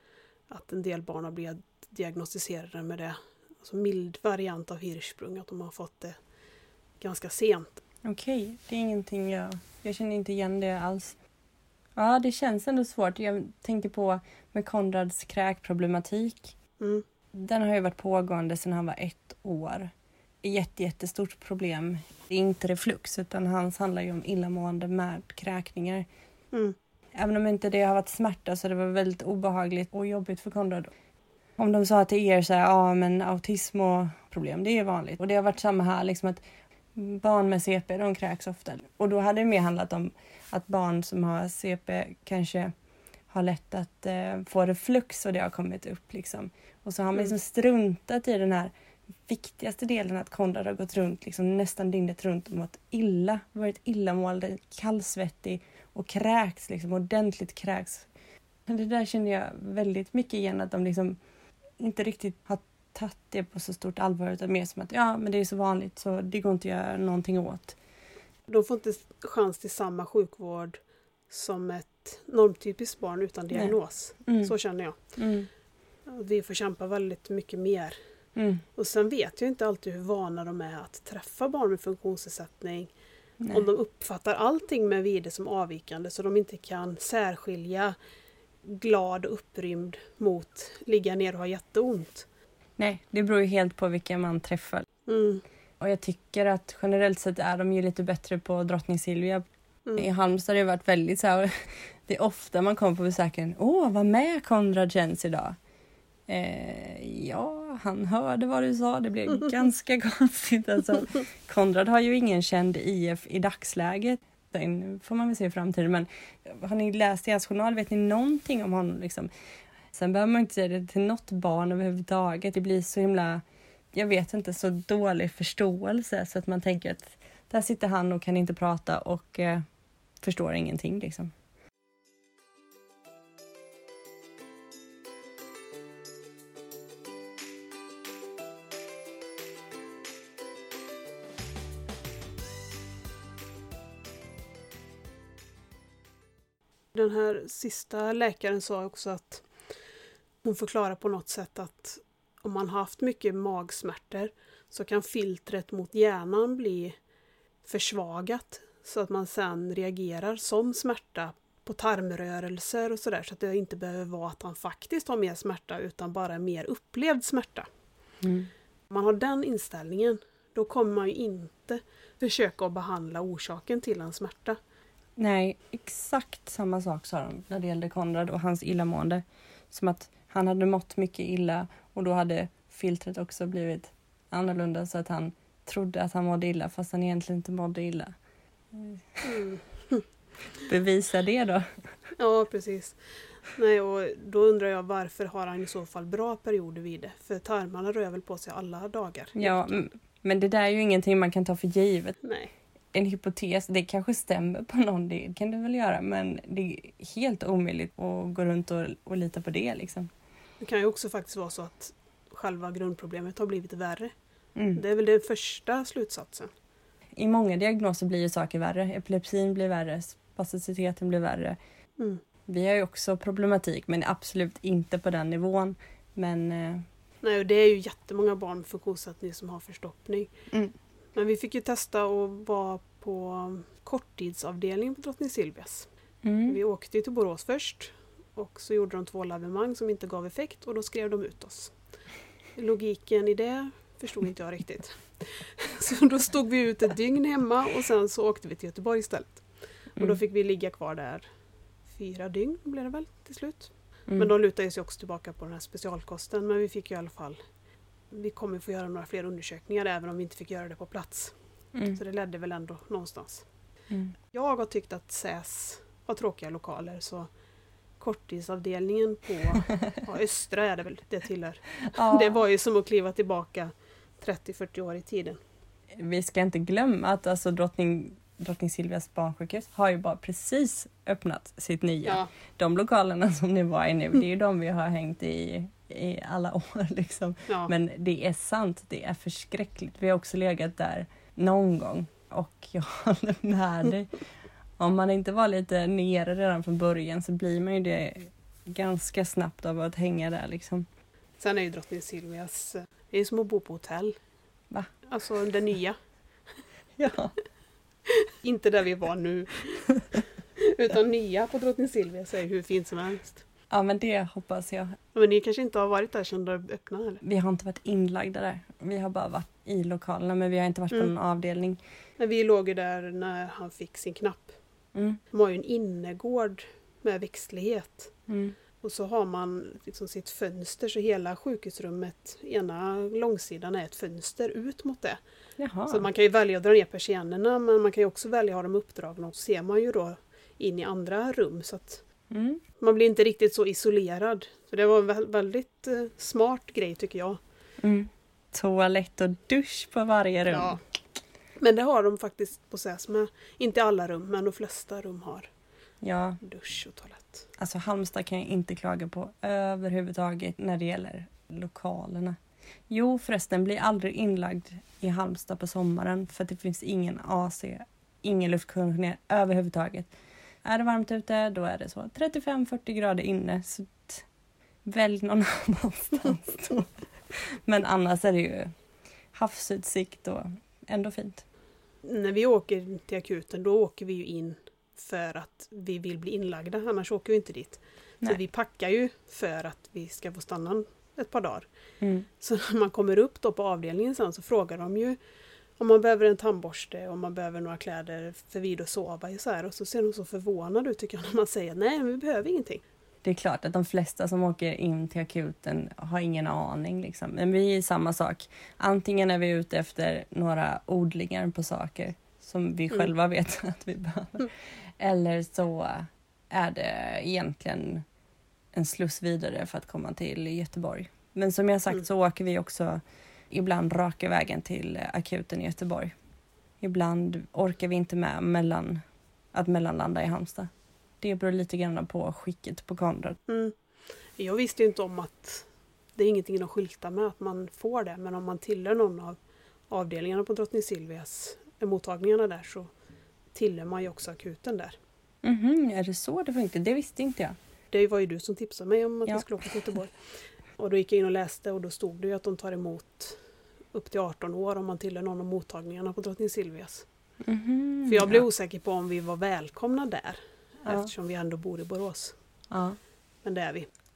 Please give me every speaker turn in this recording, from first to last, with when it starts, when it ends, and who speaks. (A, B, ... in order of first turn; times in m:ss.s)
0:00.5-0:06.2 A
0:07.0-0:07.8 A
0:08.0-0:11.2 B
0:12.0-0:16.5 B
0:17.3-0:19.9 B
0:20.4-0:26.0 B
0:27.1-0:30.9 B
0:31.6-0:36.4 B
0:36.9-0:42.7 B
0:43.3-0:48.7 B
0:49.2-0:58.1 B
0:58.7-1:01.2 B
1:01.8-1:07.8 B
1:08.5-1:15.0 A
1:13.5-1:14.5 B
1:15.1-1:15.5 B
1:16.1-1:18.0 A
1:18.4-1:18.6 B
1:18.7-1:22.9 A
1:23.5-1:27.9 A
1:28.6-1:32.2 A
1:32.8-1:34.8 B
1:35.0-1:35.4 A
1:35.8-1:39.4 B
1:40.0-1:45.5 B
1:46.3-1:59.3 B
1:59.9-2:09.6 B
2:10.2-2:11.3 B
2:26.9-2:29.4 A
2:30.4-2:36.9 A
2:37.6-2:47.7 A
2:48.2-2:48.5 B
2:48.9-2:54.6 A
2:55.2-3:08.1 B
3:08.7-3:09.2 B
3:09.2-3:10.0 A
3:10.6-3:11.7 B
3:12.2-3:19.9 A
3:19.4-3:22.2 B
3:22.2-3:22.5 A
3:22.9-3:30.1 B
3:30.6-3:34.1 A
3:34.6-3:34.8 B
3:34.7-3:36.5 A
3:37.2-3:41.6 B
3:42.5-3:46.8 B
3:47.2-3:50.3 A
3:51.1-3:55.9 A
3:56.2-3:56.6 B
3:56.4-4:01.7 A
4:02.5-4:09.4 A
4:10.0-4:11.2 A
4:11.9-4:17.4 A
4:18.1-4:21.3 A
4:21.9-4:23.5 A
4:24.3-4:27.3 A
4:28.0-4:35.4 A
4:31.8-4:32.3 B
4:35.9-4:54.2 B
4:42.0-4:42.3 A
4:47.5-4:47.7 A
4:54.8-5:00.9 B
5:01.4-5:04.2 A
5:05.1-5:06.0 A
5:07.0-5:07.3 B
5:08.4-5:13.4 A
5:13.7-5:15.0 B
5:15.1-5:17.2 A
5:17.2-5:21.8 B
5:22.2-5:24.5 A
5:24.9-5:25.2 B
5:25.3-5:28.1 A
5:28.3-5:28.6 B
5:28.8-5:35.2 A
5:35.6-5:36.0 B
5:35.9-5:42.0 A
5:42.3-5:42.6 B
5:42.8-5:47.4 A
5:47.8-5:50.8 B
5:50.5-5:50.8 A
5:51.6-5:55.5 A
5:56.0-5:56.4 B
5:56.4-5:57.5 A
5:57.6-6:02.4 B
6:02.9-6:10.1 B
6:10.6-6:14.2 B
6:14.8-6:18.7 B
6:19.3-6:21.4 B
6:22.0-6:31.7 A
6:32.0-6:32.2 B
6:32.4-6:35.2 A
6:35.8-6:42.8 A
6:43.2-6:58.0 B
6:58.7-7:03.0 B
7:03.5-7:06.1 B
7:06.8-7:09.0 B
7:09.5-7:10.7 B
7:11.2-7:13.4 B
7:13.5-7:13.7 A
7:14.4-7:19.4 A
7:19.9-7:22.9 A
7:23.5-7:25.0 A
7:25.4-7:27.6 B
7:27.9-7:30.2 A
7:30.8-7:33.4 A
7:33.9-7:37.0 A
7:37.4-7:38.4 B
7:38.1-7:42.4 A
7:42.7-7:43.0 B
7:43.4-7:43.9 A